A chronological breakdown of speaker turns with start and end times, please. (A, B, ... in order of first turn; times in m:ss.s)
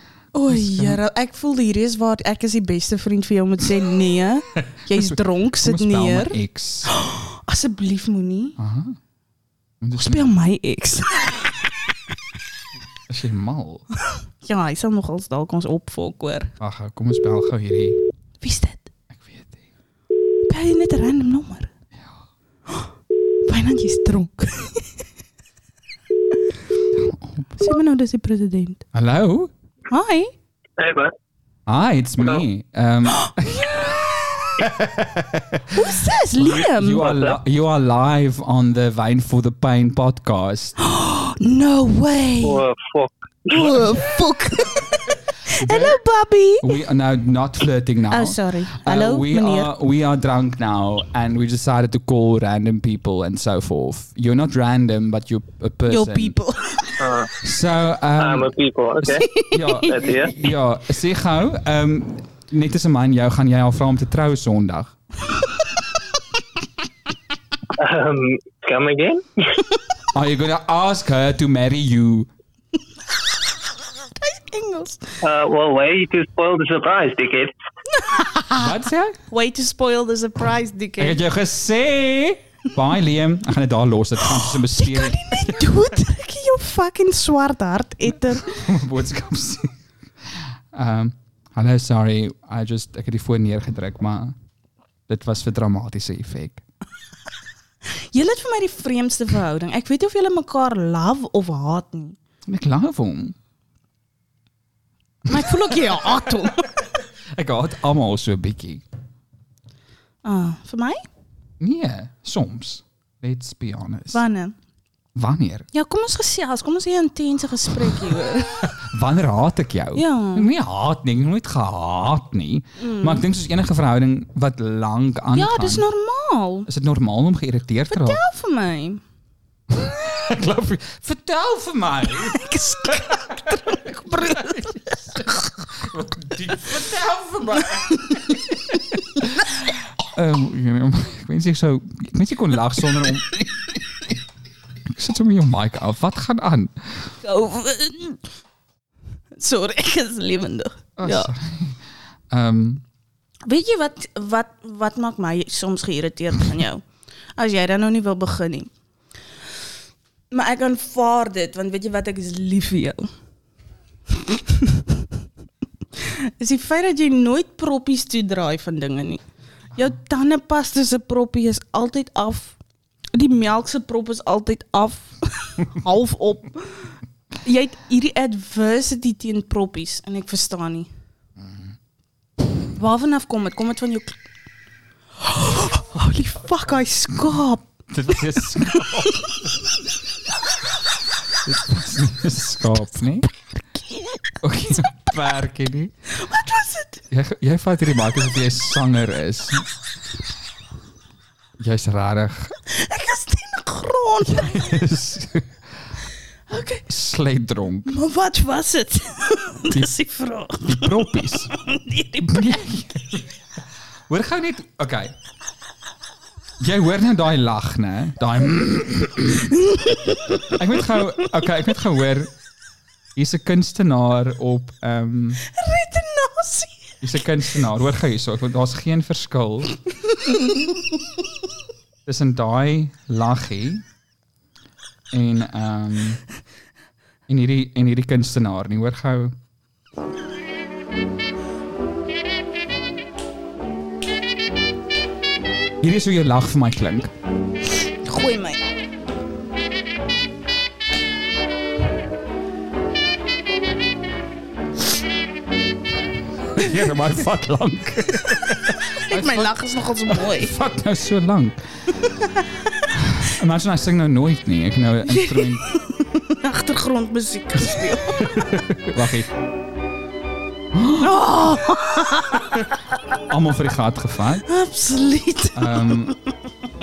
0:00.3-0:08.6 A
0:00.5-0:01.0 B
0:05.0-0:06.9 B
0:08.6-0:09.0 B
0:09.8-0:10.3 B
0:10.0-0:11.6 A
0:13.1-0:13.9 B
0:14.4-0:16.5 A
0:16.6-0:18.0 B
0:18.4-0:18.9 A
0:19.1-0:19.6 B
0:20.5-0:21.7 A
0:23.5-0:24.9 A
0:27.0-0:27.6 B
0:27.6-0:28.8 A
0:28.9-0:29.5 B
0:29.9-0:30.3 A
0:30.8-0:31.1 C
0:31.7-0:35.7 B
0:33.5-0:34.5 A
0:35.7-0:37.2 A
0:36.4-0:40.8 B
0:37.1-0:37.4 C
0:40.8-0:42.7 A
0:42.4-0:43.7 C
0:43.5-0:46.8 A
0:45.6-0:46.0 B
0:46.6-0:56.4 B
0:48.1-0:49.7 A
0:55.9-0:57.3 A
0:57.0-0:57.3 C
0:57.4-0:58.5 B
0:58.2-0:59.3 C
0:59.0-1:05.0 B
0:59.1-1:00.0 A
0:59.9-1:00.3 C
1:07.8-1:09.2 C
1:10.1-1:12.3 B
1:14.2-1:15.1 A
1:15.2-1:17.5 C
1:17.9-1:18.7 A
1:18.6-1:19.2 B
1:19.3-1:21.2 A
1:21.0-1:25.7 B
1:24.2-1:28.6 A
1:28.5-1:29.8 B
1:30.7-1:34.4 B
1:35.1-1:36.6 B
1:37.9-1:42.2 A
1:42.5-1:43.4 B
1:45.3-1:46.7 A
1:45.3-1:45.7 B
1:47.4-1:48.8 B
1:50.2-1:51.0 A
1:51.6-1:54.2 B
1:54.1-1:54.5 A
1:55.2-1:55.7 B
1:55.7-1:58.8 A
1:58.8-2:05.8 B
2:00.0-2:00.5 A
2:02.8-2:03.4 A
2:05.4-2:06.7 A
2:06.7-2:08.2 B
2:07.9-2:09.0 A
2:09.7-2:23.7 B
2:12.3-2:15.5 A
2:24.9-2:27.1 B
2:27.2-2:28.2 A
2:29.4-2:31.3 A
2:31.0-2:31.8 B
2:32.3-2:32.8 B
2:33.5-2:36.8 A
2:37.4-2:38.7 A
2:40.3-2:43.1 A
2:44.2-2:44.9 A
2:46.0-2:49.2 A
2:49.8-2:52.6 A
2:53.1-3:00.9 A
3:02.8-3:04.2 A
3:05.2-3:09.0 A
3:07.9-3:09.3 B
3:11.4-3:13.3 B
3:14.4-3:15.9 B
3:16.2-3:17.0 A
3:17.1-3:19.6 B
3:21.6-3:22.5 B
3:22.7-3:24.8 A
3:24.3-3:25.6 B
3:26.5-3:26.8 A
3:26.9-3:28.0 B
3:27.9-3:32.7 A
3:30.6-3:31.5 B
3:32.2-3:33.3 B
3:34.1-3:35.2 B
3:36.6-3:39.6 B
3:39.7-3:40.3 A
3:40.5-3:42.3 B
3:43.2-3:45.4 B
3:45.5-3:47.3 A
3:47.0-3:49.8 B
3:50.3-3:50.8 A
3:52.1-3:53.8 B
3:55.1-3:56.2 B
3:57.3-3:59.4 B
4:05.8-4:07.1 B
4:08.0-4:08.6 A
4:16.6-4:19.5 B
4:19.1-4:20.5 A
4:20.1-4:21.6 B
4:23.0-4:25.6 B
4:25.1-4:28.4 A
4:28.2-4:29.3 B
4:30.8-4:31.1 B
4:31.0-4:32.5 A
4:33.3-4:34.5 B
4:34.5-4:36.2 A
4:35.6-4:36.2 B